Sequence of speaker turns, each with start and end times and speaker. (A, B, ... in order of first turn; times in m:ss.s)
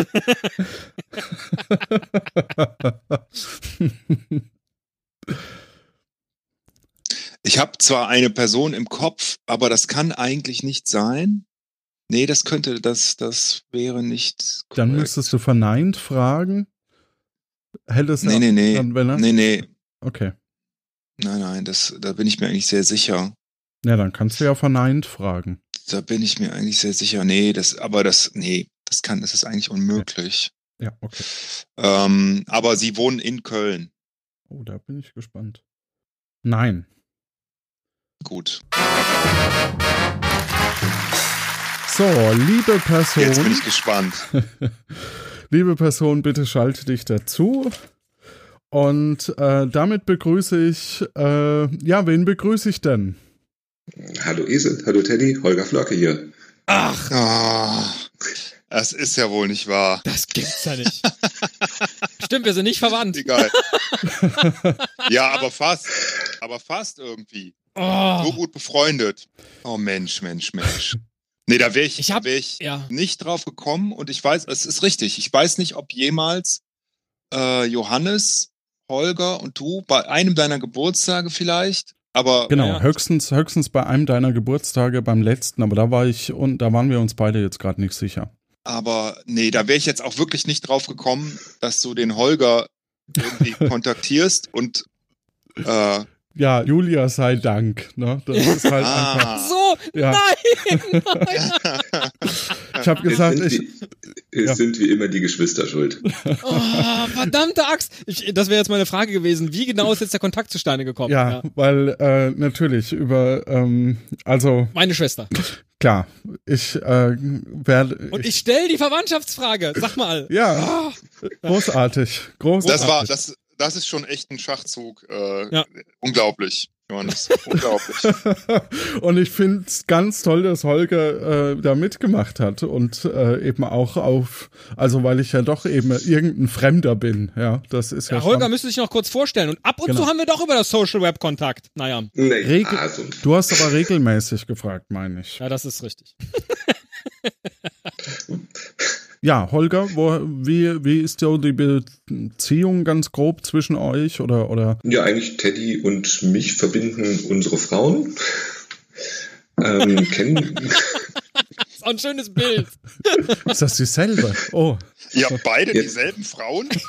0:00.1-0:00.5 A
0:01.7-0:03.2 B
0:03.8-0:04.4 B
0:07.4-0:11.4 C
0:12.1-0:15.3 C
0:14.8-0:16.7 B
0:17.9-0:19.3 B
0:18.2-0:19.7 C
0:20.0-0:20.3 B
0:21.2-0:23.3 C
0:23.8-0:25.6 B
0:25.8-0:30.5 C
0:30.8-0:31.3 B
0:31.8-0:33.9 C
0:34.5-0:35.6 B
0:36.4-0:36.8 B
0:38.2-0:38.6 C
0:41.8-0:43.6 B
0:43.2-0:44.2 C
0:44.4-0:45.0 B
0:45.5-0:47.7 B
0:48.7-0:53.2 B
0:54.0-0:56.3 D
0:56.7-0:57.1 A
0:57.1-0:58.1 C
0:58.7-1:00.0 C
1:00.0-1:01.1 A
1:02.2-1:04.5 A
1:03.1-1:03.5 C
1:04.2-1:04.7 B
1:05.0-1:07.6 C
1:07.8-1:08.4 A
1:08.2-1:16.6 C
1:12.0-1:12.9 A
1:17.3-1:22.5 C
1:22.5-1:28.3 B
1:22.5-1:22.8 A
1:28.6-1:34.8 C
1:35.6-1:36.1 C
1:36.3-1:39.4 B
1:38.3-1:41.6 A
1:38.8-1:39.5 C
1:39.9-1:41.2 B
1:41.3-1:42.1 C
1:42.7-1:43.6 B
1:43.0-1:46.0 D
1:46.2-1:46.8 B
1:46.4-1:51.4 A
1:51.1-1:54.7 B
1:54.7-1:55.3 A
1:55.4-1:58.3 B
1:58.1-2:01.5 A
2:00.3-2:03.1 B
2:02.6-2:08.1 C
2:08.0-2:18.5 B
2:18.1-2:22.1 A
2:22.2-2:23.7 D
2:22.4-2:25.4 B
2:25.4-2:26.7 A
2:29.2-2:34.8 B
2:34.8-2:38.2 D
2:39.6-2:41.0 D
2:41.8-2:43.4 A
2:43.4-2:44.8 B
2:45.1-2:46.8 C